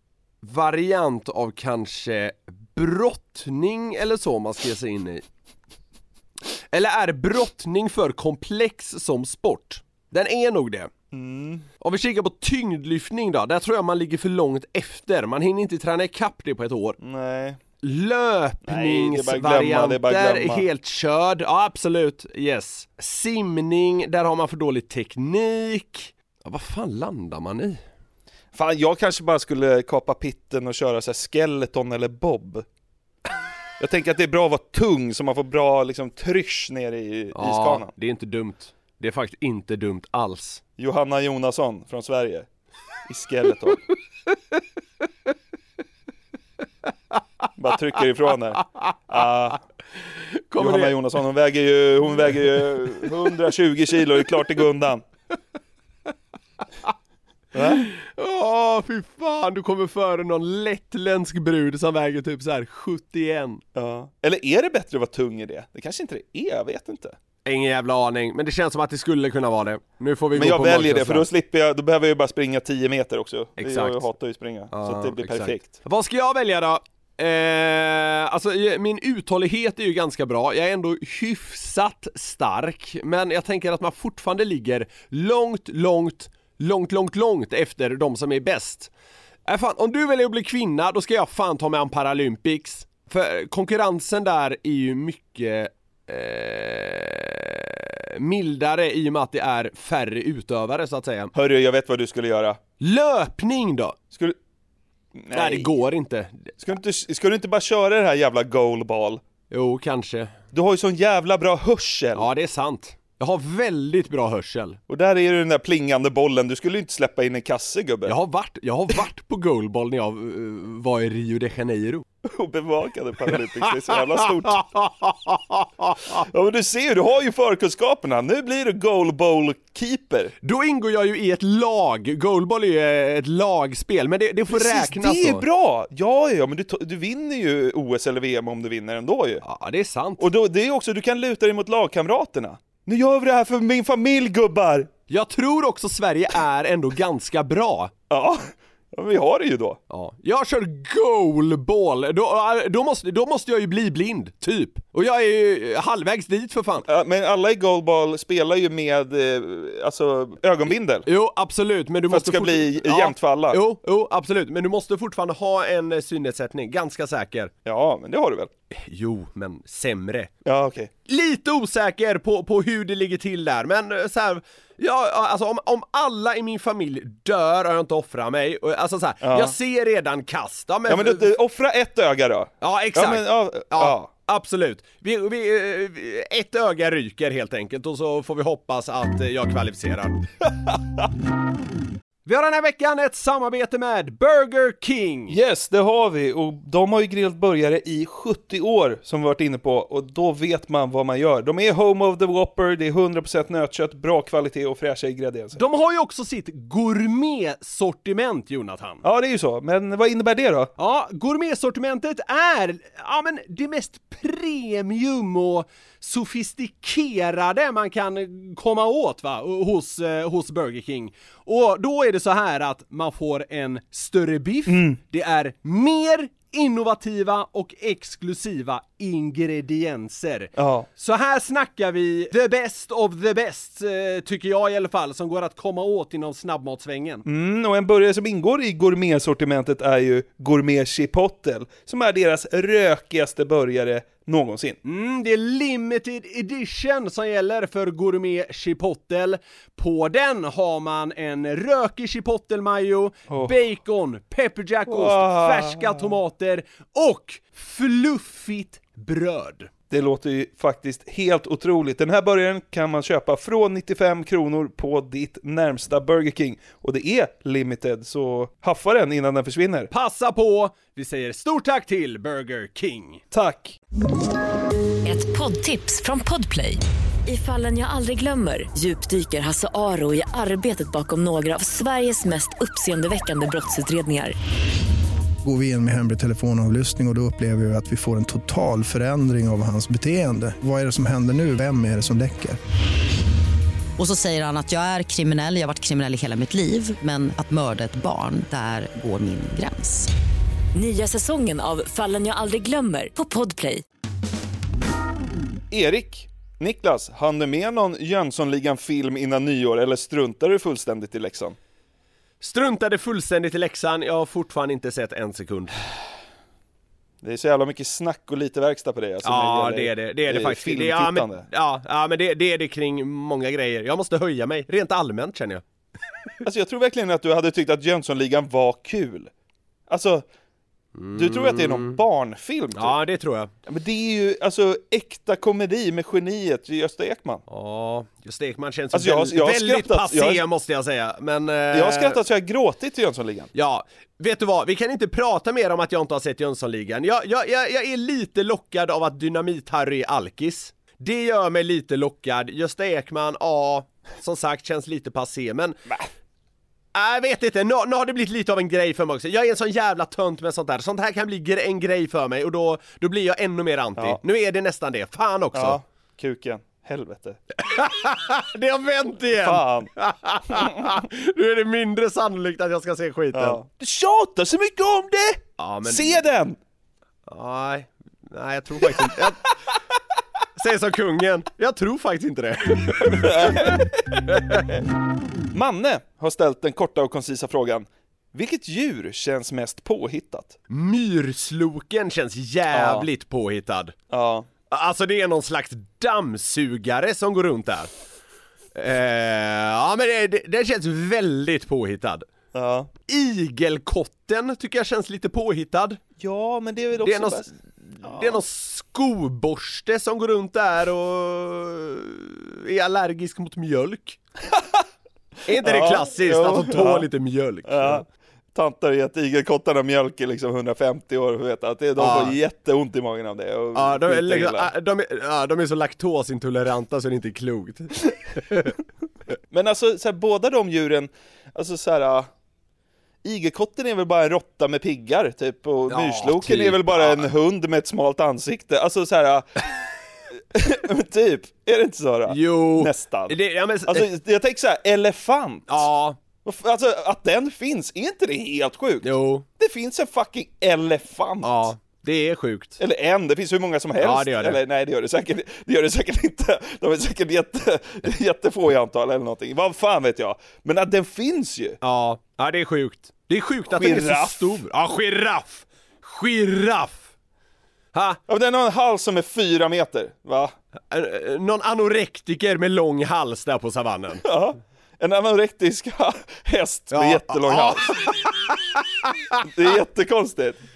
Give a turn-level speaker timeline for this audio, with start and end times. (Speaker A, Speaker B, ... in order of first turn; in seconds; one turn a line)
Speaker A: 0.4-5.2
Speaker A: 6.7-10.9
Speaker B: 11.1-11.7
Speaker A: 11.8-17.0
Speaker B: 17.0-17.6
Speaker A: 17.8-27.8
Speaker B: 18.6-20.6
Speaker B: 28.5-32.6
Speaker B: 33.8-37.9
Speaker A: 37.3-40.6
Speaker B: 40.8-42.5
Speaker B: 43.1-43.8
Speaker B: 47.6-49.6
Speaker A: 50.5-51.0
Speaker B: 50.6-55.0
Speaker B: 57.5-57.9
Speaker A: 57.6-63.6
Speaker B: 63.7-67.2
Speaker A: 67.4-71.3
Speaker B: 70.3-75.8
Speaker A: 73.6-74.0
Speaker A: 74.7-88.9
Speaker A: 89.5-101.3
Speaker B: 101.3-102.6
Speaker A: 102.8-104.0
Speaker B: 104.1-104.4
Speaker B: 105.1-105.7
Speaker A: 105.3-106.5
Speaker B: 106.6-109.2
Speaker A: 109.5-110.3
Speaker B: 110.5-112.3
Speaker A: 112.1-114.8
Speaker B: 114.9-118.1
Speaker A: 118.0-122.0
Speaker B: 122.2-124.6
Speaker A: 123.3-126.2
Speaker B: 126.1-130.3
Speaker A: 130.4-135.4
Speaker B: 134.5-139.4
Speaker A: 139.4-140.2
Speaker B: 140.2-144.9
Speaker A: 145.1-147.9
Speaker B: 148.1-149.8
Speaker A: 149.9-156.9
Speaker B: 156.8-161.1
Speaker A: 161.1-167.5
Speaker B: 162.1-163.6
Speaker B: 167.7-168.5
Speaker A: 168.7-170.3
Speaker B: 170.4-170.9
Speaker A: 171.1-181.3
Speaker B: 179.2-179.6
Speaker B: 180.9-184.0
Speaker A: 182.6-190.3
Speaker A: 192.2-195.4
Speaker B: 195.3-205.6
Speaker A: 205.6-209.0
Speaker B: 209.0-210.7
Speaker A: 210.8-237.2
Speaker B: 224.7-225.0
Speaker B: 230.6-230.9
Speaker B: 237.2-244.8
Speaker A: 244.8-259.7
Speaker B: 253.3-253.5
Speaker B: 254.9-256.1
Speaker B: 259.9-269.9
Speaker A: 269.9-273.2
Speaker B: 273.3-273.8
Speaker C: 275.0-284.3
Speaker D: 285.4-292.6
Speaker E: 294.0-300.1
Speaker C: 300.7-303.8
Speaker B: 305.7-311.6
Speaker A: 312.4-315.8
Speaker B: 317.2-321.4
Speaker A: 319.2-325.6
Speaker B: 326.4-329.3
Speaker B: 329.9-330.2
Speaker A: 331.0-332.0
Speaker B: 331.1-332.9
Speaker A: 332.8-333.5
Speaker B: 333.7-337.4
Speaker A: 337.5-342.2
Speaker B: 338.9-340.4
Speaker B: 341.7-343.5
Speaker A: 343.5-355.9
Speaker A: 356.9-365.8
Speaker B: 365.5-367.4
Speaker A: 367.6-373.6
Speaker B: 369.4-369.9
Speaker B: 370.5-370.9
Speaker B: 373.3-376.6
Speaker A: 375.6-376.2
Speaker A: 377.3-379.6
Speaker A: 380.6-383.7
Speaker B: 383.1-384.2
Speaker A: 384.3-384.7
Speaker B: 385.5-390.6
Speaker A: 390.7-393.9
Speaker B: 392.7-393.1
Speaker B: 394.1-394.5
Speaker A: 394.7-397.9
Speaker A: 398.7-402.2
Speaker B: 402.5-402.9
Speaker A: 403.1-406.0
Speaker B: 406.2-407.5
Speaker A: 407.0-414.2
Speaker B: 408.0-408.4
Speaker B: 414.5-414.8
Speaker A: 415.5-418.0
Speaker B: 415.6-417.1
Speaker B: 417.6-424.7
Speaker A: 422.0-422.4
Speaker A: 423.7-428.7
Speaker B: 429.5-432.3
Speaker B: 433.2-439.8
Speaker A: 435.9-437.3
Speaker B: 440.5-445.9
Speaker A: 442.3-444.1
Speaker A: 445.7-446.2
Speaker B: 446.4-451.7
Speaker A: 449.0-449.4
Speaker A: 451.4-452.8
Speaker B: 452.8-461.8
Speaker A: 454.0-454.6
Speaker A: 461.8-467.1
Speaker B: 463.7-464.6
Speaker A: 467.9-468.2
Speaker B: 468.3-470.5
Speaker A: 470.9-474.2
Speaker B: 474.2-477.9
Speaker A: 476.9-479.4
Speaker B: 479.4-480.6